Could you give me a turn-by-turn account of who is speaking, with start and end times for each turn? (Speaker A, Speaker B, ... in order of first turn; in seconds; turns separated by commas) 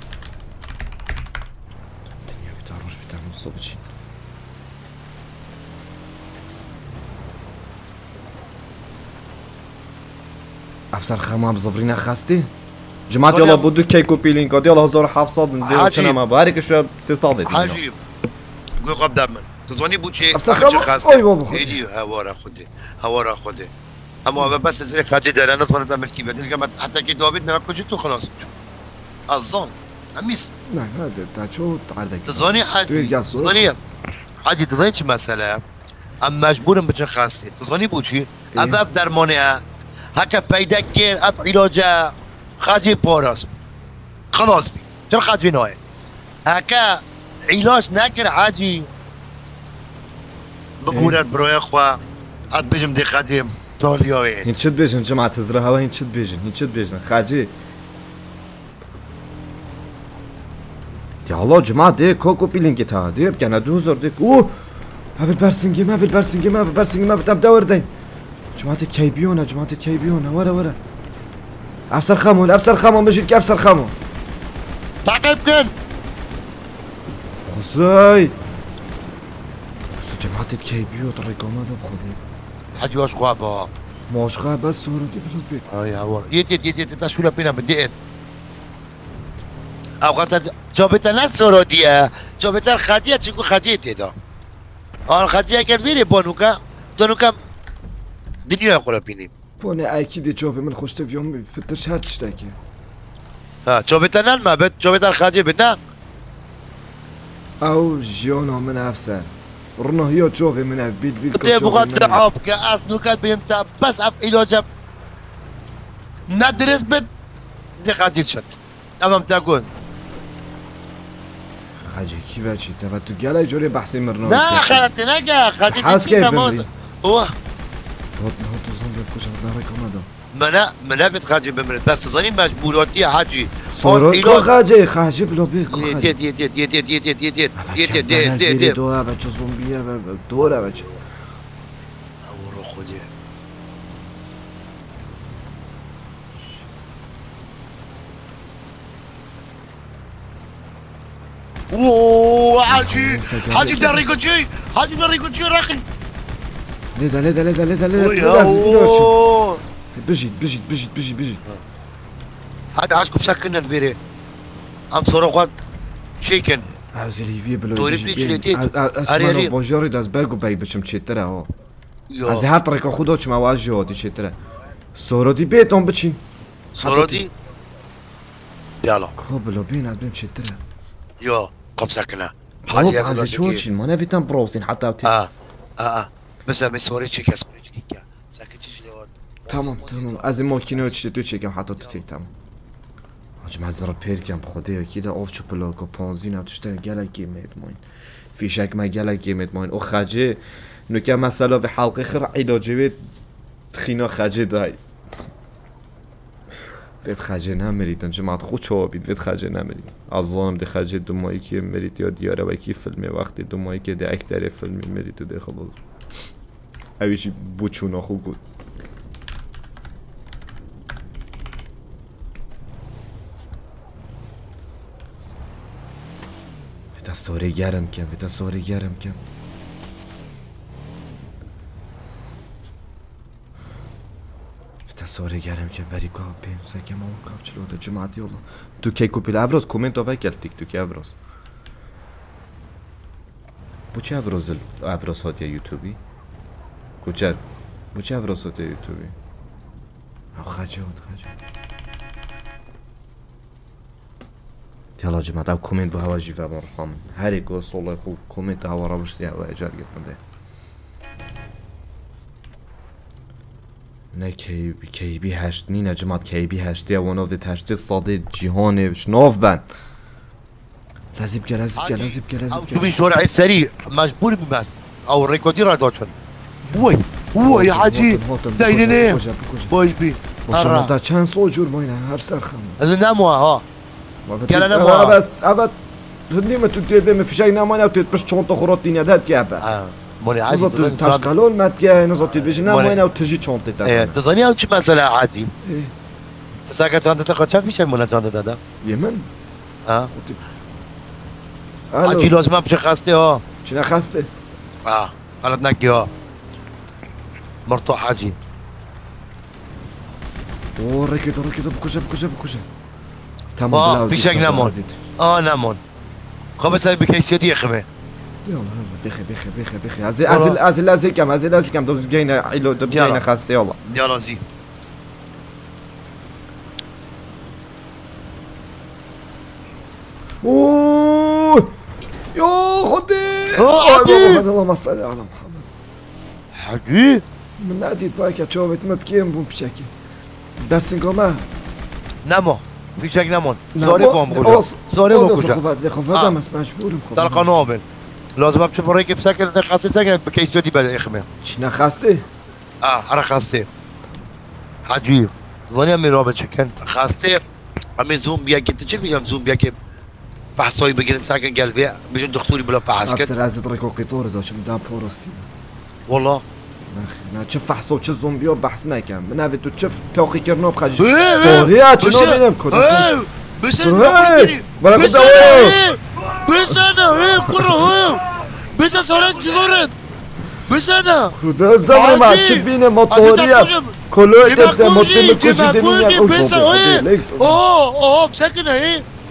Speaker A: 2.2-3.9, Speaker A: 10.9-12.5, Speaker A: 13.1-17.8, Speaker B: 13.2-13.7, Speaker B: 15.6-16.2, Speaker B: 17.5-18.0, Speaker B: 18.8-23.7, Speaker A: 20.3-21.8, Speaker B: 24.2-28.5, Speaker B: 29.3-30.5, Speaker A: 30.7-33.7, Speaker B: 32.2-33.8, Speaker B: 34.4-35.6, Speaker B: 36.2-39.6, Speaker A: 38.5-38.8, Speaker B: 40.1-43.5, Speaker B: 44.3-45.8, Speaker B: 46.5-48.9, Speaker B: 50.8-52.0, Speaker A: 50.9-51.2, Speaker B: 52.5-54.5, Speaker A: 54.4-57.5, Speaker A: 61.2-64.6, Speaker A: 65.2-67.9, Speaker A: 68.5-70.8, Speaker A: 71.9-74.0, Speaker B: 75.0-75.7, Speaker A: 77.5-78.3, Speaker A: 79.9-82.2, Speaker B: 82.8-83.7, Speaker A: 84.1-85.7, Speaker B: 85.7-87.9, Speaker B: 90.0-94.1, Speaker B: 95.1-97.4, Speaker B: 98.5-99.3, Speaker A: 99.6-102.6, Speaker B: 103.7-105.8, Speaker A: 107.6-112.2, Speaker B: 111.3-114.7, Speaker B: 116.3-117.1, Speaker B: 117.8-119.7, Speaker A: 121.8-124.9, Speaker B: 124.2-127.3, Speaker A: 125.7-126.7, Speaker A: 128.2-130.1, Speaker B: 130.3-134.5, Speaker A: 133.7-136.2, Speaker B: 135.7-138.8, Speaker A: 137.6-140.9, Speaker B: 142.2-143.1, Speaker B: 151.7-155.8, Speaker A: 152.7-154.1, Speaker A: 156.9-159.2, Speaker B: 157.9-159.6, Speaker A: 159.9-161.4, Speaker B: 162.8-164.0, Speaker B: 164.9-165.5, Speaker B: 166.2-166.7, Speaker A: 166.9-171.5, Speaker B: 167.8-169.5, Speaker B: 172.1-172.5, Speaker A: 172.3-174.4, Speaker A: 174.9-176.2, Speaker B: 176.8-177.3, Speaker A: 176.8-177.3, Speaker B: 178.8-179.2, Speaker A: 179.2-180.6, Speaker B: 181.2-183.7, Speaker A: 182.6-185.2, Speaker B: 185.0-190.9, Speaker A: 189.5-192.3, Speaker B: 191.8-192.0, Speaker A: 193.4-197.8, Speaker A: 198.3-203.0, Speaker A: 203.7-204.8, Speaker A: 207.0-215.8, Speaker A: 217.0-218.4, Speaker A: 226.9-229.2, Speaker A: 234.9-241.2, Speaker A: 243.9-246.0, Speaker A: 247.0-249.2, Speaker A: 250.3-251.3, Speaker A: 255.0-260.2, Speaker A: 264.1-269.7, Speaker A: 271.1-273.0, Speaker B: 271.8-276.1, Speaker B: 276.7-280.9, Speaker A: 277.4-279.7, Speaker A: 280.4-282.8, Speaker B: 282.8-283.6, Speaker A: 284.3-285.8, Speaker B: 284.5-285.2, Speaker A: 286.3-289.7, Speaker B: 289.6-291.3, Speaker A: 290.5-294.2, Speaker B: 292.6-293.0, Speaker B: 293.8-295.5, Speaker A: 295.6-295.9, Speaker B: 296.7-298.6, Speaker A: 298.8-299.3, Speaker B: 299.9-300.1, Speaker A: 300.1-300.4, Speaker A: 301.9-302.4, Speaker B: 302.0-303.4, Speaker A: 303.6-304.3, Speaker B: 304.9-306.1, Speaker B: 307.7-308.4, Speaker A: 310.8-312.7, Speaker A: 313.6-315.0, Speaker B: 313.7-315.8, Speaker B: 316.6-317.9, Speaker A: 318.4-324.0, Speaker B: 320.3-320.6, Speaker B: 322.9-323.3, Speaker B: 323.9-324.4, Speaker A: 330.4-331.7, Speaker A: 332.3-335.7, Speaker B: 333.5-334.4, Speaker B: 336.6-337.2, Speaker A: 337.6-339.9, Speaker A: 340.6-341.5, Speaker B: 342.2-346.4, Speaker A: 343.7-347.7, Speaker B: 347.1-347.8, Speaker B: 348.4-351.3, Speaker A: 351.4-352.3, Speaker B: 352.8-353.7, Speaker B: 354.9-357.4, Speaker B: 358.0-359.8, Speaker B: 360.6-363.3, Speaker A: 363.0-365.5, Speaker B: 366.1-366.4, Speaker A: 366.9-373.2, Speaker B: 371.0-379.9, Speaker A: 373.8-375.8, Speaker A: 377.4-377.9, Speaker B: 380.7-381.4, Speaker A: 381.3-387.6, Speaker B: 381.9-389.1